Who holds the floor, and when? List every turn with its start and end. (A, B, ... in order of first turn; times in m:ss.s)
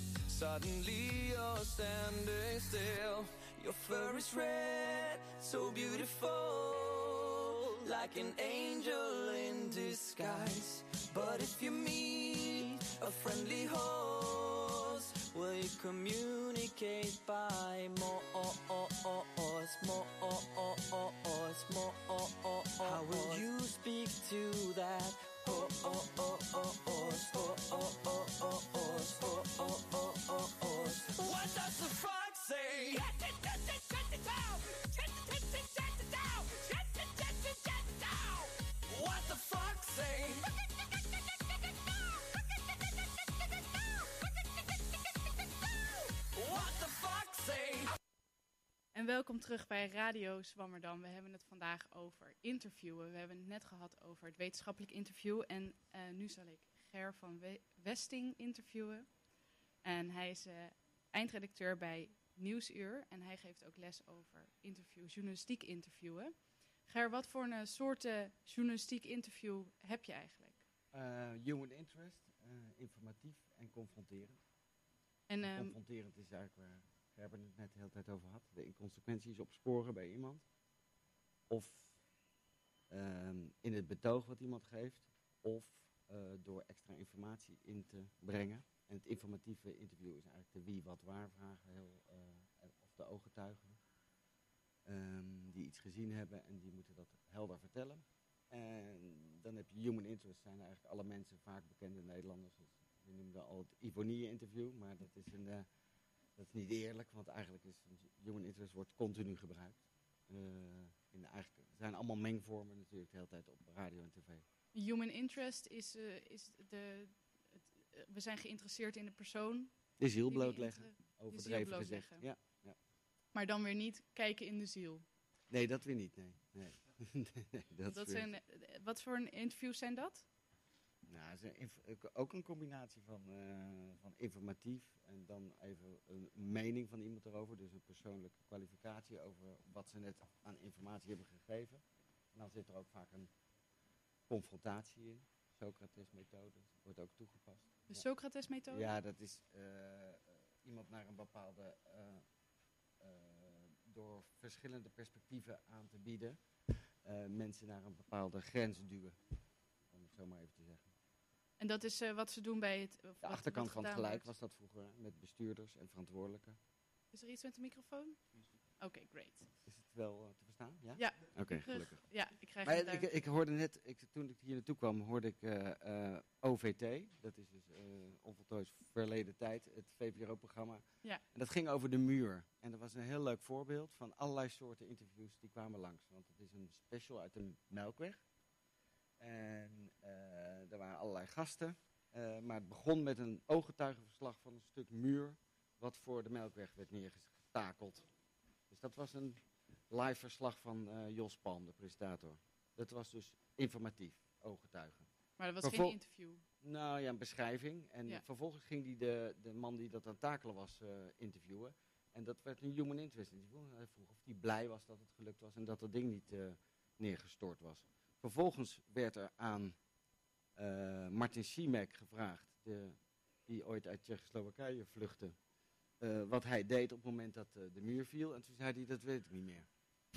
0:00.3-0:40.6 A
0:46.3-0:48.0 A
0:48.9-0:59.1 B
0:59.8-1:06.3 B
1:06.9-1:10.6 B
1:10.9-1:14.4 C
1:15.3-1:15.8 B
1:15.5-1:20.4 C
1:21.5-1:21.9 C
1:22.9-1:33.8 C
1:34.9-1:45.7 C
1:46.4-1:54.4 C
1:54.8-1:59.7 B
2:00.0-2:02.8 C
2:00.3-2:02.2 B
2:03.3-2:05.0 B
2:05.5-2:08.3 C
2:07.9-2:10.3 B
2:11.1-2:21.8 C
2:22.3-2:23.3 C
2:24.3-2:28.0 C
2:27.9-2:29.0 B
2:28.7-2:32.2 C
2:33.0-2:36.4 C
2:37.0-2:39.2 C
2:39.9-2:40.9 C
2:41.6-2:44.3 B
2:43.2-2:46.6 C
2:47.1-2:48.2 B
2:48.8-2:49.5 B
2:49.7-2:52.0 C
2:51.0-2:53.1 B
2:52.6-3:08.2 C
3:09.2-3:18.1 C
3:18.7-3:25.1 C
3:25.4-3:26.4 B
3:25.6-3:26.0 C
3:26.6-3:39.8 C
3:40.6-3:43.0 C
3:43.5-3:45.4 C
3:46.0-3:49.7 C